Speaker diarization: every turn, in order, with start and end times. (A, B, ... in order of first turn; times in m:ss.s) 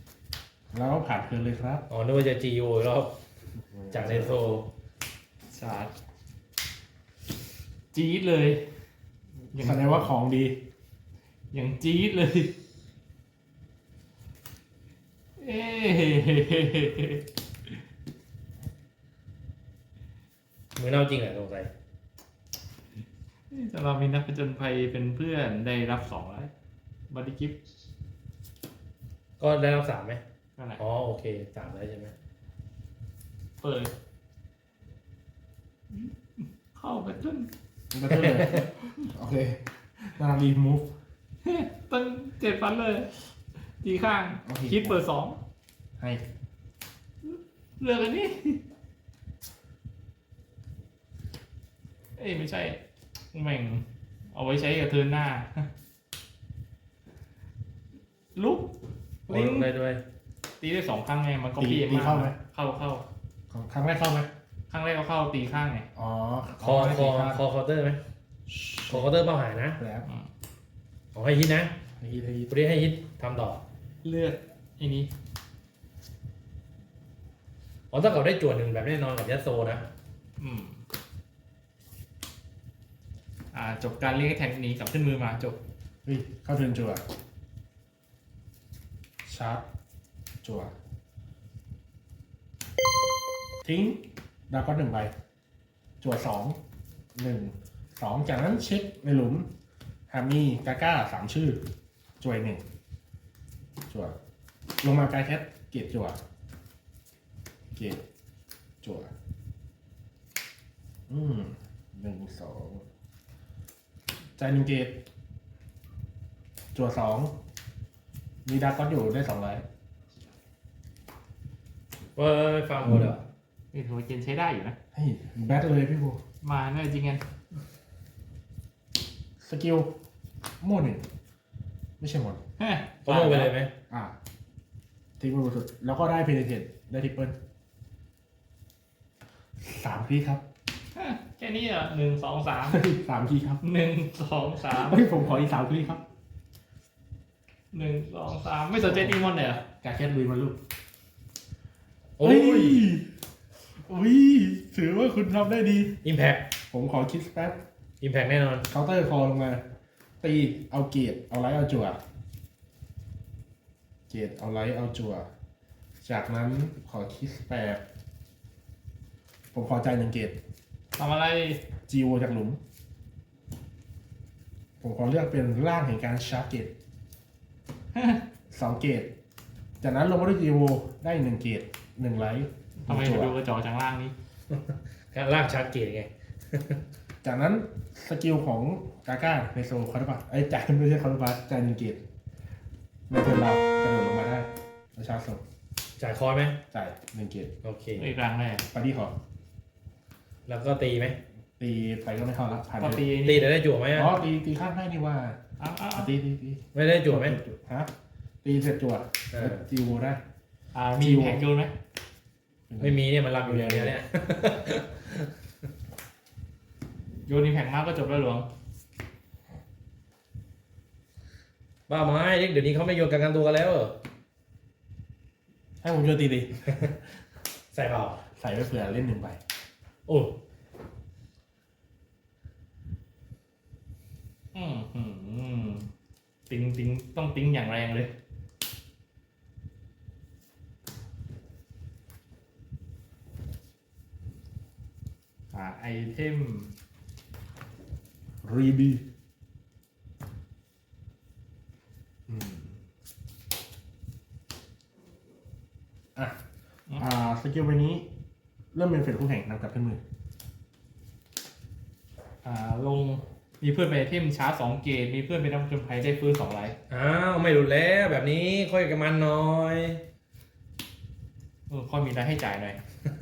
0:00.7-0:01.8 A
0:01.9-0:03.1 B
0:03.6-0:04.4 A
0:03.9-0:04.7 B
0:05.5-0:05.9 C
0:07.9-0:08.7 C
0:09.5-0:10.6 A
0:09.5-0:10.1 C
0:11.5-0:12.6 C
0:15.4-0:17.7 C
0:20.8-0:21.7 B
0:23.5-0:26.5 C
0:27.1-0:27.6 C
0:29.4-0:30.2 B
0:30.8-0:32.1 B
0:33.6-0:33.9 C
0:35.9-0:37.5 C
0:37.9-0:40.9 A
0:41.4-0:43.1 C
0:43.8-0:45.4 C
0:44.4-0:45.0 A
0:46.0-0:46.2 A
0:47.2-0:48.6 C
0:52.2-0:52.8 C
0:53.3-0:55.7 C
0:58.4-0:58.7 C
0:59.3-0:59.7 C
0:59.3-1:00.0 B
1:00.6-1:03.0 C
1:01.6-1:02.4 A
1:03.5-1:04.3 A
1:04.7-1:05.9 C
1:06.0-1:07.4 A
1:06.6-1:08.0 B
1:08.5-1:09.2 A
1:08.9-1:09.8 B
1:09.8-1:10.1 A
1:11.2-1:11.7 B
1:12.0-1:12.6 A
1:12.5-1:13.6 B
1:14.0-1:15.1 C
1:17.9-1:19.9 B
1:20.4-1:20.8 C
1:23.5-1:25.6 C
1:26.0-1:27.0 A
1:29.3-1:29.6 A
1:30.4-1:30.7 A
1:33.6-1:35.1 A
1:36.0-1:36.6 A
1:37.2-1:39.5 A
1:40.1-1:41.6 A
1:42.2-1:42.6 A
1:43.9-1:44.2 A
1:44.8-1:46.2 A
1:47.8-1:48.0 A
1:48.8-1:49.1 A
1:51.1-1:52.8 A
1:54.4-1:55.0 A
1:56.7-1:57.4 A
1:58.5-1:59.6 A
2:02.2-2:03.2 B
2:03.7-2:04.8 C
2:04.9-2:06.2 A
2:06.4-2:07.2 C
2:09.4-2:09.9 A
2:10.6-2:11.1 A
2:12.0-2:12.4 A
2:12.6-2:13.6 C
2:13.0-2:13.7 B
2:15.2-2:17.4 A
2:19.6-2:20.4 A
2:21.0-2:22.9 C
2:22.7-2:23.6 A
2:23.6-2:25.1 C
2:24.8-2:26.0 A
2:27.7-2:29.6 C
2:28.8-2:30.6 A
2:32.2-2:32.9 B
2:32.2-2:33.1 A
2:33.8-2:36.0 A
2:36.0-2:36.5 B
2:36.7-2:37.6 A
2:38.0-2:38.7 B
2:38.7-2:39.6 A
2:40.2-2:42.0 A
2:44.1-2:45.3 A
2:46.0-2:47.8 A
2:49.5-2:50.4 A
2:51.0-2:51.6 C
2:51.9-2:52.6 A
2:54.8-2:56.7 A
2:57.9-2:58.2 C
2:58.5-2:59.1 A
2:59.8-3:03.4 A
3:02.8-3:04.1 C
3:05.1-3:06.8 B
3:07.2-3:12.0 A
3:13.1-3:15.4 A
3:16.0-3:16.6 B
3:16.7-3:17.5 A
3:17.6-3:18.1 B
3:18.0-3:18.6 C
3:18.7-3:19.2 A
3:20.5-3:21.2 B
3:21.6-3:23.1 A
3:22.8-3:23.5 C
3:23.2-3:24.1 B
3:23.9-3:25.4 A
3:25.6-3:26.1 C
3:26.0-3:27.9 A
3:26.7-3:27.4 B
3:28.4-3:30.2 A
3:29.3-3:29.6 B
3:30.7-3:31.7 C
3:31.0-3:31.4 A
3:32.7-3:34.0 A
3:32.8-3:35.3 B
3:37.3-3:38.5 C
3:41.9-3:43.9 B
3:45.8-3:46.9 A
3:47.7-3:48.2 B
3:48.3-3:49.4 A
3:50.1-3:50.3 B
3:54.5-3:55.9 C
3:56.5-3:58.1 C
4:05.5-4:06.7 C
4:08.4-4:09.0 A
4:12.3-4:12.8 A
4:17.0-4:18.1 A
4:18.7-4:20.0 A
4:22.4-4:26.8 C
4:26.9-4:30.0 B
4:31.7-4:32.8 C